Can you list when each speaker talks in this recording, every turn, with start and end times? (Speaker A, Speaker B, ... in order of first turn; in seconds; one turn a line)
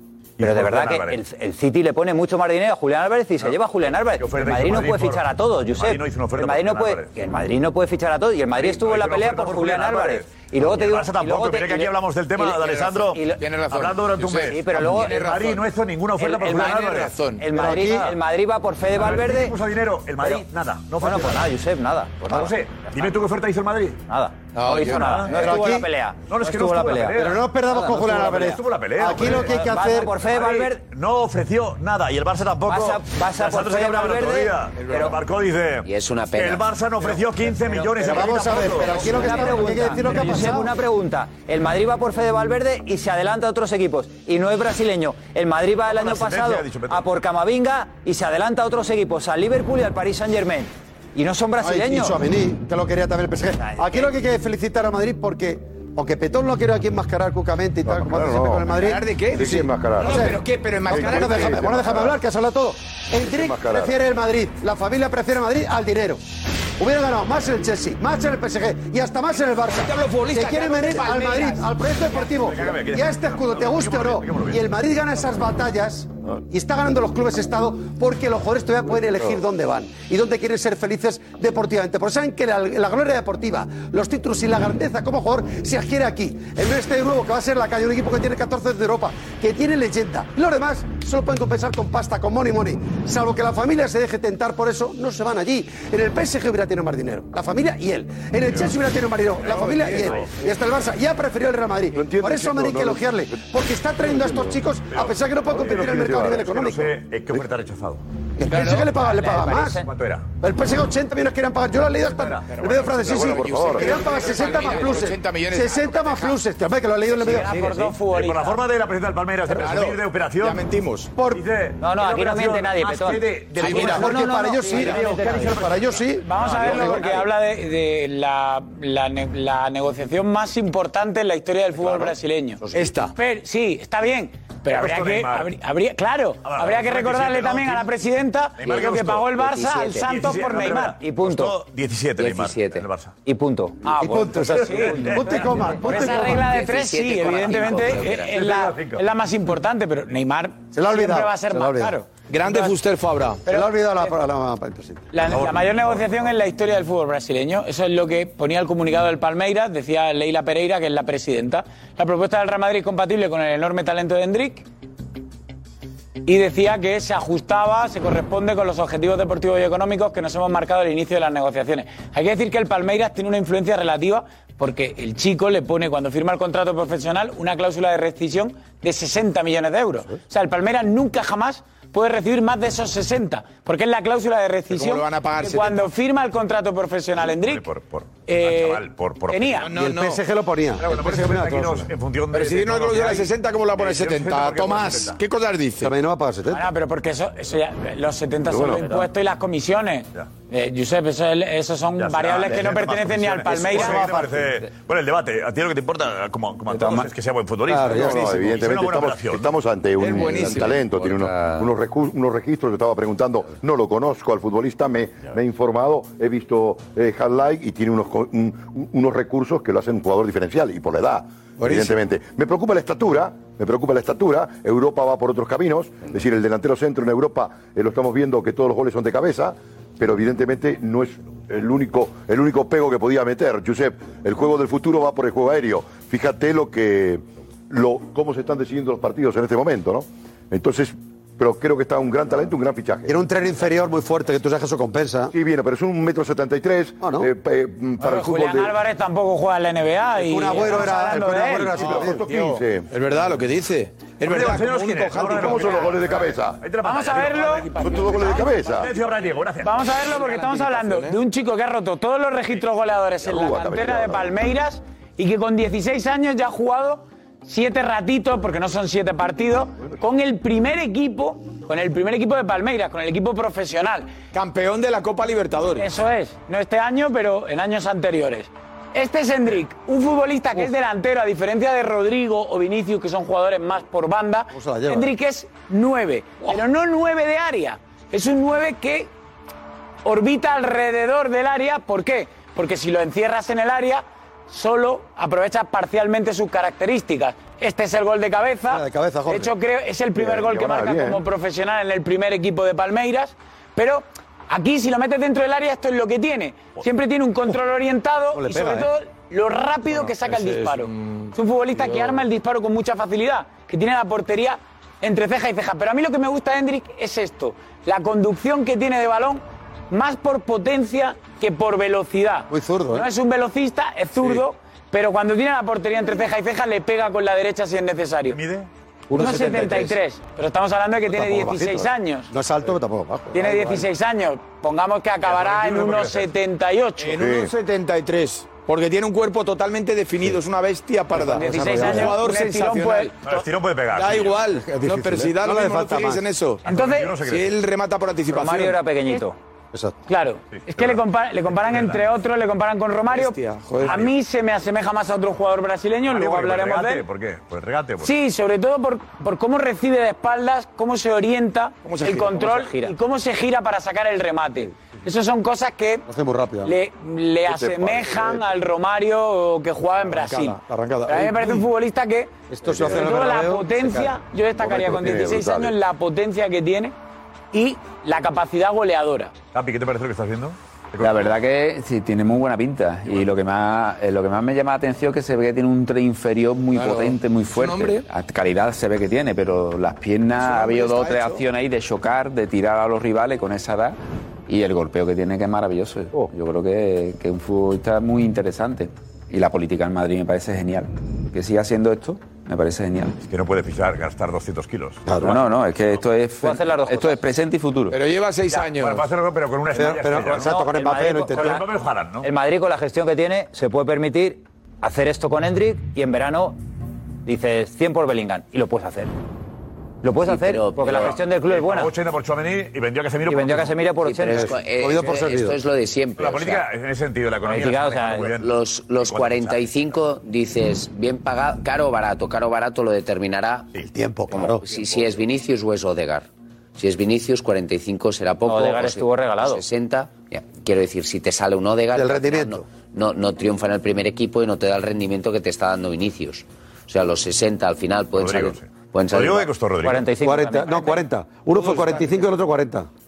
Speaker A: 0.4-1.2
Speaker B: 0.4-13.4
Speaker A: 4.2-7.1
Speaker A: 8.6-17.1
Speaker C: 12.6-15.6
Speaker B: 14.4-15.2
Speaker B: 16.2-16.8
Speaker C: 16.4-17.5
Speaker B: 17.4-19.6
Speaker D: 17.5-18.1
Speaker A: 18.9-21.5
Speaker B: 20.2-20.4
Speaker B: 21.0-23.1
Speaker A: 22.3-24.0
Speaker B: 24.1-27.2
Speaker C: 24.5-25.2
Speaker A: 24.7-25.6
Speaker D: 25.3-25.9
Speaker A: 26.2-29.6
Speaker D: 27.2-30.1
Speaker B: 28.2-28.5
Speaker B: 29.1-30.8
Speaker A: 30.2-39.8
Speaker B: 32.6-35.1
Speaker C: 34.8-35.1
Speaker E: 35.8-36.6
Speaker D: 38.0-40.7
Speaker B: 38.8-52.2
Speaker A: 45.9-47.1
Speaker D: 51.6-66.2
Speaker B: 53.6-54.1
Speaker F: 57.9-58.8
Speaker C: 58.8-61.6
Speaker F: 59.3-60.4
Speaker F: 60.9-62.2
Speaker F: 63.2-63.9
Speaker D: 66.8-106.9
Speaker C: 69.6-71.7
Speaker A: 72.1-74.7
Speaker A: 99.4-100.3
Speaker C: 99.6-100.1
Speaker F: 101.9-103.2
Speaker F: 104.0-104.6
Speaker A: 104.9-108.0
Speaker F: 105.5-106.5
Speaker D: 108.4-109.8
Speaker C: 108.5-109.0
Speaker B: 109.0-109.9
Speaker A: 109.8-110.2
Speaker D: 110.4-117.6
Speaker A: 112.1-113.0
Speaker C: 112.5-116.4
Speaker F: 113.0-114.1
Speaker G: 117.2-118.6
Speaker A: 117.9-120.6
Speaker C: 119.5-121.1
Speaker D: 121.1-121.4
Speaker A: 121.3-127.2
Speaker B: 121.8-125.7
Speaker C: 123.6-124.0
Speaker D: 123.6-127.1
Speaker G: 126.2-132.6
Speaker C: 132.7-133.1
Speaker G: 133.2-140.9
Speaker A: 134.7-135.5
Speaker A: 136.4-137.9
Speaker A: 138.6-143.1
Speaker E: 138.6-140.1
Speaker B: 140.7-141.6
Speaker E: 142.2-142.8
Speaker B: 143.2-143.9
Speaker G: 143.8-152.8
Speaker D: 143.9-146.5
Speaker A: 144.3-146.0
Speaker E: 146.1-148.4
Speaker A: 147.8-149.0
Speaker D: 150.7-151.9
Speaker C: 152.3-153.4
Speaker G: 153.4-154.1
Speaker D: 153.5-155.1
Speaker G: 155.1-164.6
Speaker A: 155.3-156.3
Speaker G: 166.2-187.7
Speaker C: 184.7-185.9
Speaker A: 187.3-189.7
Speaker G: 188.3-189.7
Speaker C: 189.6-190.2
Speaker D: 189.7-191.9
Speaker A: 190.8-195.2
Speaker C: 192.3-195.9
Speaker D: 195.8-196.7
Speaker G: 196.5-204.0
Speaker F: 198.5-198.9
Speaker A: 201.9-209.5
Speaker D: 203.5-204.6
Speaker H: 206.7-207.1
Speaker D: 207.7-208.4
Speaker F: 207.9-243.2
Speaker C: 210.0-210.8
Speaker D: 221.6-221.9
Speaker D: 243.0-245.3
Speaker F: 245.3-248.8
Speaker D: 247.0-247.3
Speaker G: 248.0-252.0
Speaker D: 250.2-252.2
Speaker F: 251.8-252.9
Speaker C: 251.8-256.1
Speaker A: 254.2-260.0
Speaker F: 255.2-256.6
Speaker G: 256.8-258.6
Speaker F: 257.8-258.9
Speaker G: 259.6-274.1
Speaker C: 260.1-261.2
Speaker F: 263.2-264.3
Speaker C: 274.3-275.9
Speaker G: 275.8-289.1
Speaker D: 284.5-285.1
Speaker G: 290.0-328.4
Speaker D: 298.7-299.5
Speaker F: 300.1-301.2
Speaker D: 308.3-308.9
Speaker C: 310.3-311.3
Speaker C: 311.8-312.2
Speaker D: 322.5-323.1
Speaker A: 328.3-328.7
Speaker D: 329.1-330.0
Speaker G: 329.1-332.3
Speaker D: 331.1-333.9
Speaker G: 333.3-337.2
Speaker A: 335.2-336.3
Speaker C: 337.0-346.6
Speaker F: 337.2-337.5
Speaker D: 341.1-342.2
Speaker G: 341.3-343.1
Speaker A: 343.2-344.4
Speaker D: 344.7-346.2
Speaker G: 346.6-347.1
Speaker A: 346.6-347.6
Speaker C: 347.2-348.9
Speaker B: 348.3-349.4
Speaker G: 350.1-357.0
Speaker A: 350.5-352.1
Speaker C: 353.1-354.1
Speaker A: 356.1-358.1
Speaker G: 358.0-366.0
Speaker C: 361.8-362.4
Speaker B: 362.3-362.9
Speaker D: 366.1-366.7
Speaker G: 366.6-376.9
Speaker F: 367.5-368.4
Speaker C: 370.1-371.6
Speaker D: 372.5-374.2
Speaker F: 372.6-373.0
Speaker F: 374.6-375.8
Speaker G: 377.5-379.3
Speaker A: 379.5-381.4
Speaker H: 381.0-403.1
Speaker C: 386.7-388.1
Speaker C: 390.4-391.4
Speaker A: 403.2-405.1
Speaker D: 405.1-405.4
Speaker H: 405.1-408.0
Speaker B: 406.4-407.2
Speaker C: 407.9-409.1
Speaker A: 408.5-410.5
Speaker D: 409.7-411.6
Speaker B: 410.4-411.6
Speaker A: 411.3-412.3
Speaker B: 412.2-416.6
Speaker B: 417.2-419.1
Speaker B: 420.0-421.9
Speaker E: 420.2-421.2
Speaker A: 420.9-423.8
Speaker B: 423.2-424.5
Speaker E: 424.0-426.6
Speaker D: 424.3-425.6
Speaker A: 426.2-430.0
Speaker B: 427.5-428.3
Speaker E: 428.3-433.7
Speaker D: 433.9-434.6
Speaker E: 434.3-449.5
Speaker B: 438.5-439.6
Speaker D: 441.9-442.6
Speaker A: 448.1-450.1
Speaker B: 449.8-451.0
Speaker D: 450.2-452.9
Speaker C: 451.5-452.2